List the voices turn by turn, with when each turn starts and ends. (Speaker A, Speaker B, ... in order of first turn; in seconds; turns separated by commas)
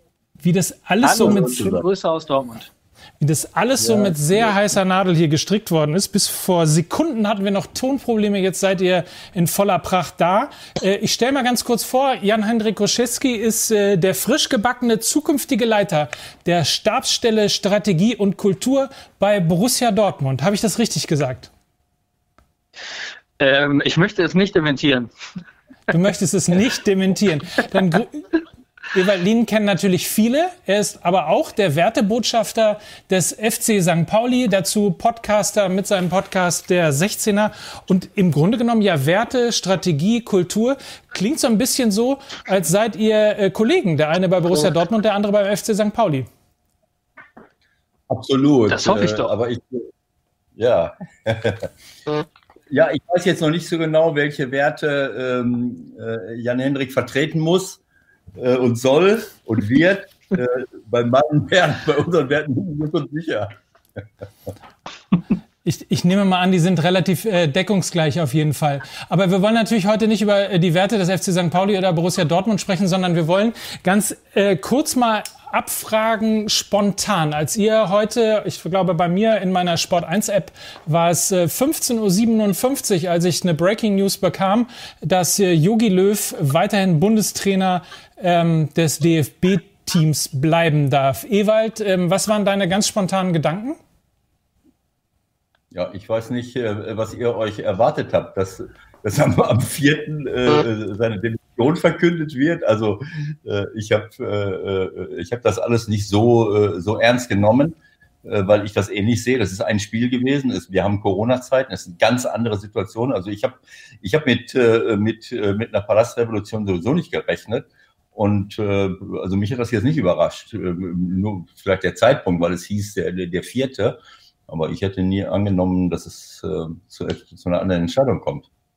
Speaker A: 0.4-1.7, Speaker B: 1.0-2.7, Speaker C: 1.2-1.9, Speaker A: 3.2-21.5, Speaker C: 3.8-4.5, Speaker B: 23.4-25.1, Speaker A: 25.9-28.3, Speaker A: 28.9-46.3, Speaker C: 48.1-49.9, Speaker B: 48.7-49.3, Speaker C: 50.6-51.7, Speaker C: 52.7-57.8, Speaker C: 58.4-63.5, Speaker A: 65.7-93.8, Speaker C: 95.7-128.5